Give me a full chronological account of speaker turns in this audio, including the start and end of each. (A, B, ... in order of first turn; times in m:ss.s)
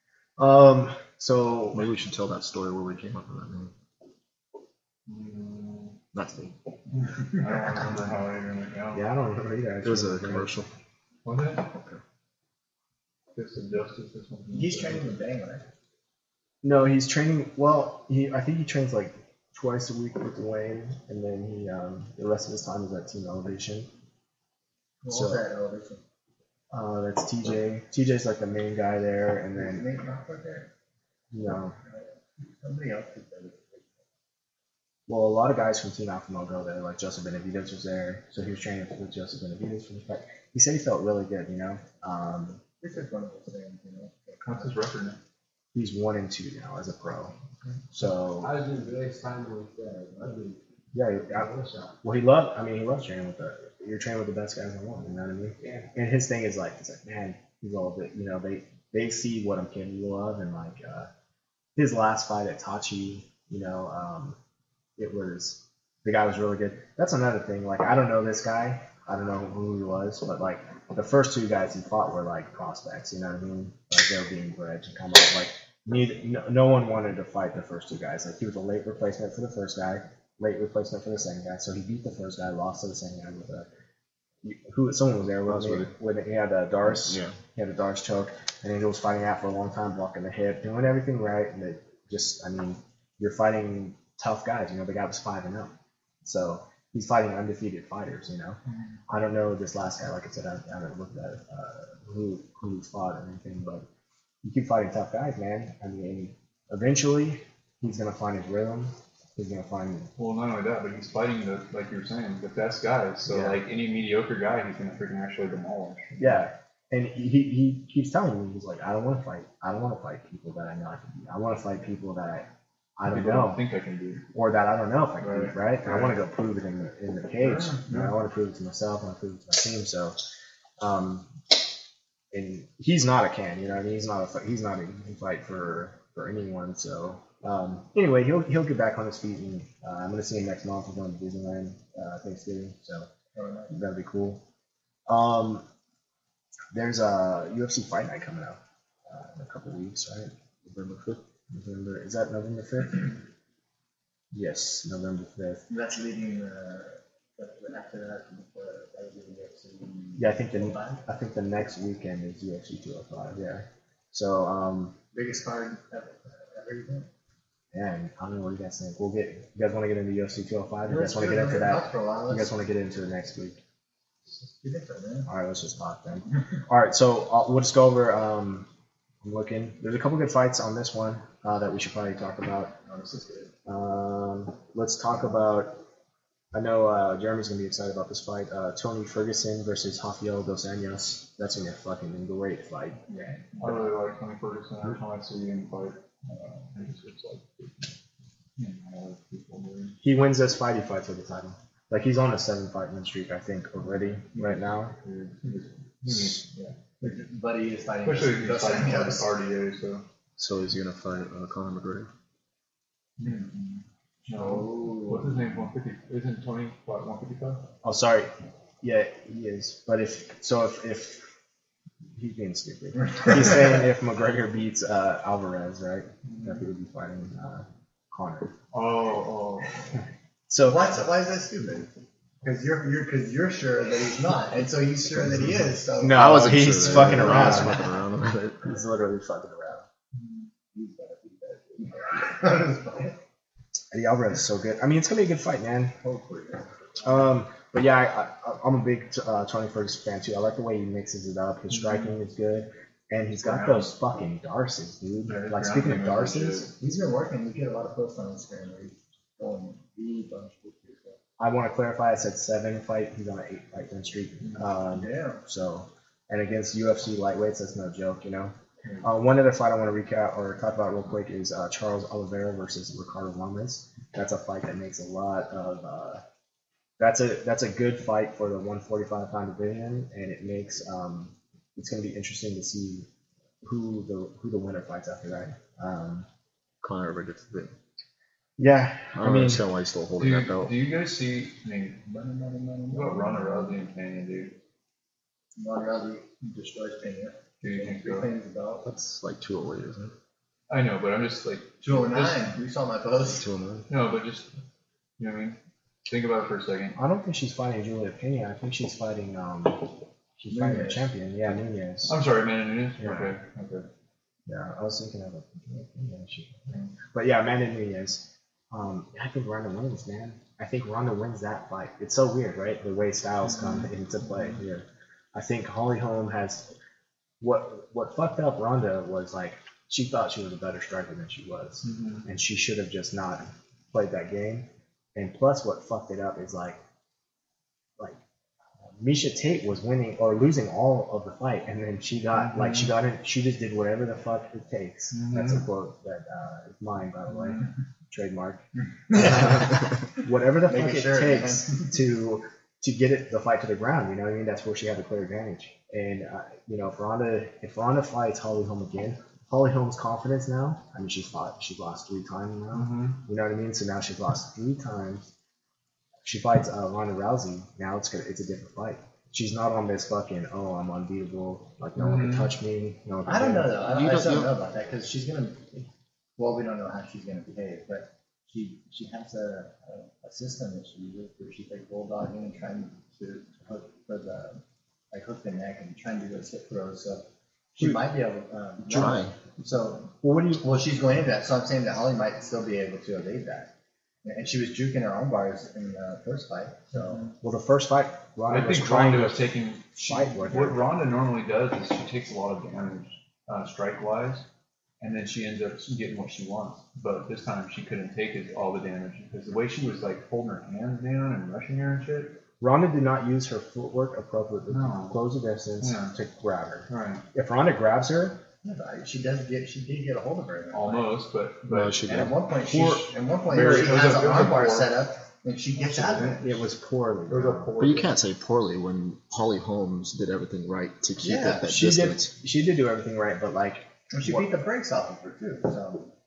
0:00.4-0:01.9 A
0:01.7-0:03.7 B
0:05.1-0:06.0 C
0:06.1-0:06.6 B
0:07.0-0:09.1 C
0:08.9-0:10.5 A
0:09.8-0:10.7 B
0:11.2-0:11.7 C
0:11.8-0:12.0 B
0:13.4-0:15.1 C
0:14.5-0:15.7 D
0:16.6-0:23.9 A
0:25.0-0:26.0 D
0:25.1-0:25.4 A
0:26.7-0:29.8 A
0:29.6-0:30.7 D
0:31.3-0:31.8 A
0:31.9-0:34.0 D
0:35.1-0:42.6 A
0:42.8-0:44.7 D
0:44.4-0:45.2 C
0:45.7-0:47.3 A
0:47.9-0:48.5 A
0:48.4-0:50.6 E
0:50.9-0:51.5 A
0:51.3-0:52.0 E
0:52.0-1:01.1 A
0:55.6-0:55.9 E
1:01.8-1:04.4 A
1:05.0-1:23.7 A
1:24.4-1:35.7 A
1:25.5-1:25.9 B
1:27.0-1:27.4 B
1:36.2-1:43.9 A
1:38.7-1:39.0 C
1:44.4-1:50.1 A
1:50.2-1:56.4 C
1:53.3-1:53.6 A
1:56.2-2:03.6 A
2:03.1-2:04.3 C
2:04.3-2:10.2 A
2:05.2-2:06.2 C
2:07.4-2:08.2 C
2:10.8-2:11.3 A
2:12.3-2:23.1 A
2:23.4-2:23.8 D
2:23.7-2:24.4 A
2:25.1-2:25.6 A
2:26.7-2:30.3 A
2:30.6-2:31.2 B
2:31.5-2:33.2 A
2:34.3-2:35.7 A
2:35.7-2:41.0 D
2:40.2-2:45.0 A
2:45.1-2:47.1 D
2:47.7-2:53.6 A
2:50.9-2:52.5 D
2:54.3-2:55.3 D
2:55.3-2:58.7 A
2:59.2-3:02.8 A
3:02.8-3:03.5 D
3:03.7-3:05.8 A
3:06.5-3:13.0 A
3:13.1-3:13.9 D
3:13.6-3:18.0 C
3:18.6-3:20.0 C
3:20.0-3:25.0 A
3:24.2-3:26.8 C
3:27.0-3:29.3 D
3:28.0-3:30.0 C
3:30.4-3:32.1 B
3:33.2-3:37.7 C
3:34.3-3:35.4 D
3:37.8-3:41.3 A
3:42.1-3:48.5 A
3:43.1-3:43.6 D
3:46.2-3:46.6 C
3:48.7-3:50.0 C
3:50.5-3:51.0 A
3:50.7-3:51.9 D
3:52.4-3:57.6 D
3:56.0-3:57.9 A
3:56.1-3:58.7 B
3:58.6-3:59.9 A
4:00.7-4:03.2 D
4:03.9-4:06.0 A
4:06.0-4:07.1 D
4:07.0-4:16.7 A
4:11.7-4:12.2 C
4:13.5-4:13.9 C
4:15.2-4:16.7 C
4:16.7-4:21.2 D
4:21.4-4:36.2 A
4:24.9-4:25.4 D
4:37.0-4:43.1 A
4:43.6-4:46.3 A
4:46.8-4:47.8 B
4:48.6-4:49.6 A
4:49.2-4:50.8 B
4:50.2-4:52.0 C
4:52.0-4:53.8 D
4:52.9-4:54.6 C
4:55.6-4:58.9 D
4:57.6-4:58.3 C
4:58.8-5:00.1 B
5:00.7-5:02.6 C
5:01.8-5:03.4 D
5:03.3-5:03.9 B
5:03.9-5:04.5 C
5:05.2-5:07.0 C
5:07.0-5:12.2 A
5:10.5-5:11.1 D
5:12.1-5:13.9 C
5:13.0-5:13.3 A
5:14.5-5:26.7 A
5:16.7-5:17.0 C
5:23.4-5:24.6 C
5:27.4-5:36.8 A
5:31.8-5:32.3 C
5:38.8-6:05.3 A
5:42.3-5:42.9 C
5:45.1-5:45.6 C
5:49.1-5:50.1 D
5:50.7-5:52.0 D
6:02.7-6:03.2 C
6:06.2-6:13.9 A
6:12.0-6:12.5 C
6:13.3-6:15.8 D
6:13.9-6:14.5 B
6:16.4-6:33.7 D
6:28.9-6:29.2 A
6:28.9-6:29.4 B
6:30.2-6:30.6 A
6:34.2-6:37.2 D
6:36.9-6:37.4 C
6:37.4-6:40.8 A
6:38.5-6:44.5 C
6:45.0-6:52.4 C
6:52.6-6:58.4 A
6:54.7-6:55.2 C
6:55.8-6:56.2 C
6:56.9-6:57.2 C
6:58.6-7:01.1 D
7:00.7-7:04.9 C
7:01.7-7:02.4 B
7:02.1-7:06.6 D
7:03.6-7:03.9 A
7:05.8-7:06.4 C
7:06.4-7:07.7 A
7:07.3-7:08.2 C
7:07.8-7:12.3 B
7:11.2-7:11.6 D
7:11.6-7:14.5 A
7:14.1-7:16.1 D